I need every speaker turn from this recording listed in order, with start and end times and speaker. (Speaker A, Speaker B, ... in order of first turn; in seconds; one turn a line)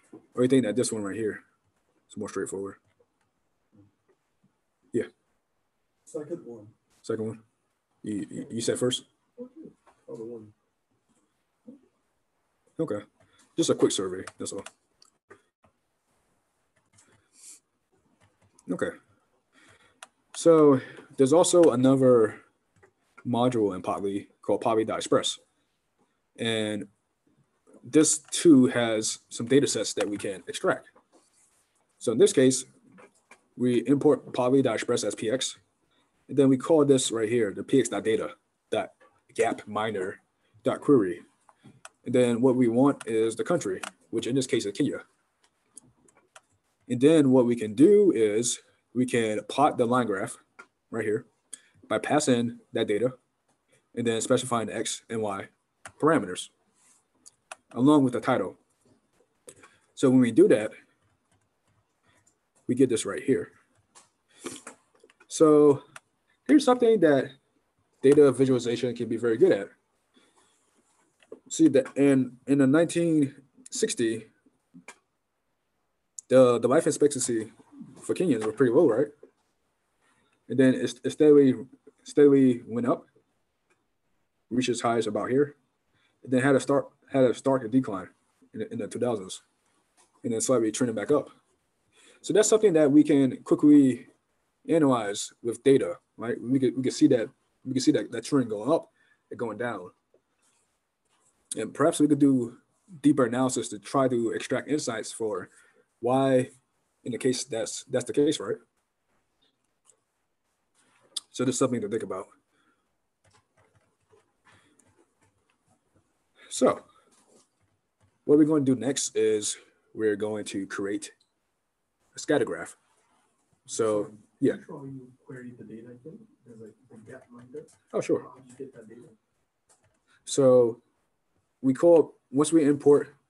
Speaker A: 0.3-1.4
Speaker A: 2.1-2.8
Speaker B: 6.1-6.7
Speaker A: 7.0-7.4
Speaker A: 8.0-9.1
Speaker B: 9.4-10.5
Speaker A: 12.8-13.0
Speaker A: 13.6-14.7
Speaker A: 18.7-18.9
Speaker A: 20.3-22.4
Speaker A: 23.2-25.4
Speaker A: 26.4-26.9
Speaker A: 27.9-30.9
Speaker A: 32.0-32.7
Speaker A: 33.6-35.6
Speaker A: 36.3-41.2
Speaker A: 42.0-45.0
Speaker A: 46.9-51.3
Speaker A: 51.9-53.2
Speaker A: 53.9-56.5
Speaker A: 57.7-58.6
Speaker A: 60.0-60.8
Speaker A: 62.7-63.5
Speaker A: 65.3-65.8
Speaker A: 66.5-67.3
Speaker A: 68.0-69.7
Speaker A: 71.5-74.3
Speaker A: 76.3-79.1
Speaker A: 80.5-83.1
Speaker A: 84.5-85.6
Speaker A: 86.2-89.4
Speaker A: 90.2-91.3
Speaker A: 92.2-94.1
Speaker A: 94.7-99.9
Speaker A: 101.5-105.5
Speaker A: 106.0-106.5
Speaker A: 107.0-108.6
Speaker A: 111.3-112.3
Speaker A: 116.5-116.8
Speaker A: 118.3-121.1
Speaker A: 122.1-122.8
Speaker A: 123.7-124.6
Speaker B: 123.7-127.7
Speaker A: 127.9-128.3
Speaker B: 128.2-129.1
Speaker A: 130.3-130.8
Speaker A: 131.6-133.1